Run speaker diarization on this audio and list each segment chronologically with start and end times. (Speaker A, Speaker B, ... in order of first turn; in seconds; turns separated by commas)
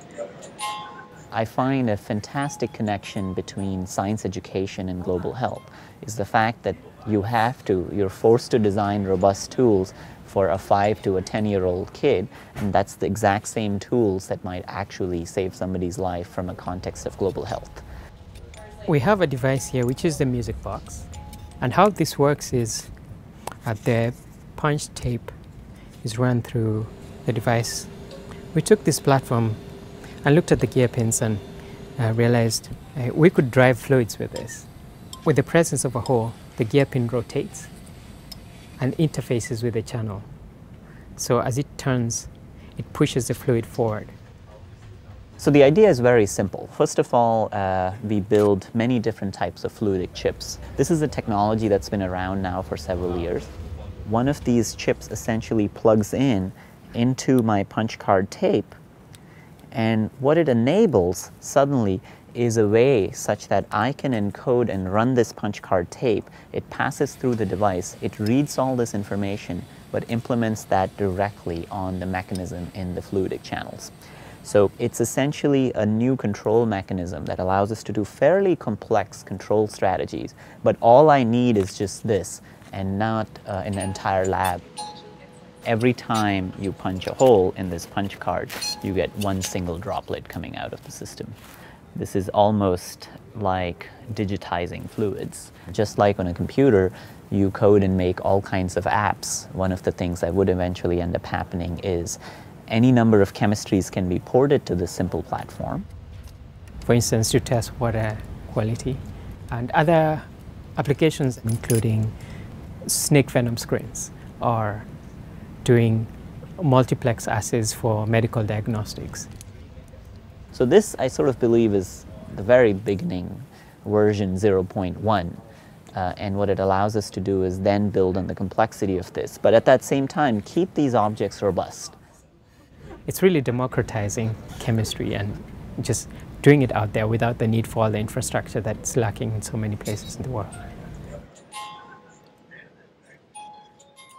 Speaker A: 1.3-17.8, Speaker B: 18.8-22.9, Speaker B: 23.6-25.3, Speaker B: 26.0-27.9, Speaker B: 28.5-29.6, Speaker B: 30.2-31.4, Speaker B: 32.0-34.7, Speaker B: 35.2-37.7, Speaker B: 38.8-40.3, Speaker B: 41.1-44.1, Speaker A: 45.4-53.5, Speaker A: 54.0-58.8, Speaker A: 59.7-73.9, Speaker A: 74.4-84.6, Speaker A: 85.6-91.4, Speaker A: 91.9-105.9, Speaker B: 106.8-112.1, Speaker B: 112.8-114.9, Speaker B: 115.6-119.3, Speaker A: 120.5-125.4, Speaker A: 125.9-132.0, Speaker B: 133.1-140.5